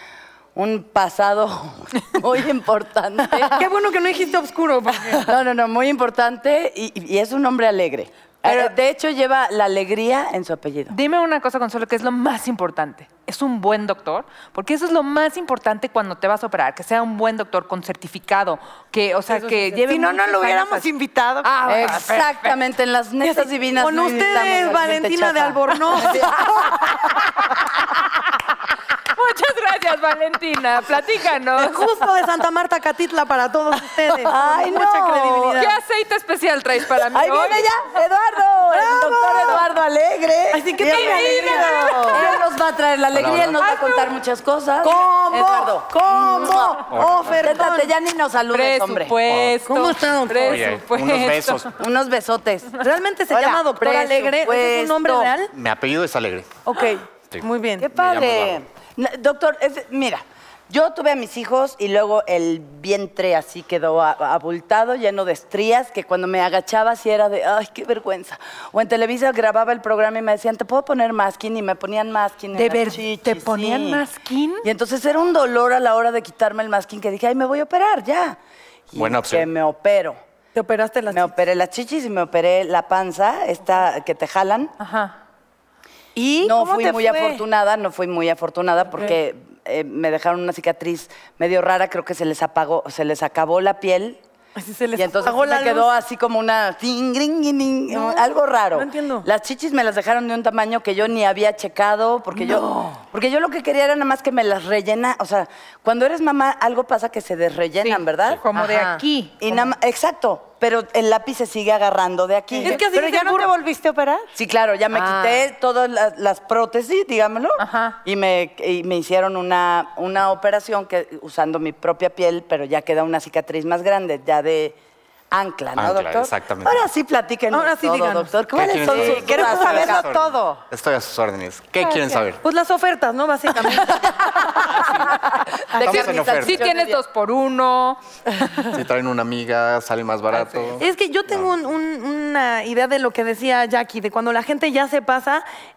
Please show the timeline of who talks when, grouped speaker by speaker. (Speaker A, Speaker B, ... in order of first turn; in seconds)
Speaker A: 0.5-3.6, 5.2-10.9, 21.7-26.5, 34.1-35.6, 37.1-49.2, 51.8-52.7, 53.3-55.3, 57.8-74.0, 74.6-78.4, 78.9-80.2, 81.1-84.7, 86.4-94.2, 95.0-108.4, 109.4-112.8, 114.3-124.8, 125.3-130.0, 135.7-137.0
Speaker B: 3.4-5.2, 23.2-26.4, 31.6-35.8, 38.8-39.6, 40.5-42.4, 44.8-47.9, 49.5-50.7, 52.8-55.5, 56.6-57.9, 80.5-81.3, 94.5-95.9, 97.9-99.3, 102.5-102.8, 112.6-113.5, 127.5-129.1, 132.4-134.7, 135.7-136.0, 140.8-145.4
Speaker C: 10.9-20.9, 21.4-22.3, 29.1-31.9, 35.6-37.7, 40.8-42.4, 43.6-44.1, 48.5-51.7, 72.5-74.6, 84.8-85.2, 107.8-109.3, 117.6-118.0, 135.8-138.0
Speaker D: 19.3-22.3, 86.2-87.4, 108.5-109.0, 112.7-114.3, 115.0-115.4, 129.0-130.6
Speaker E: 43.1-43.6, 46.9-47.3, 49.3-49.5, 50.4-51.8, 55.5-56.6, 57.3-58.6, 79.0-79.5, 125.8-126.8, 128.5-132.4, 135.8-136.7, 138.7-141.5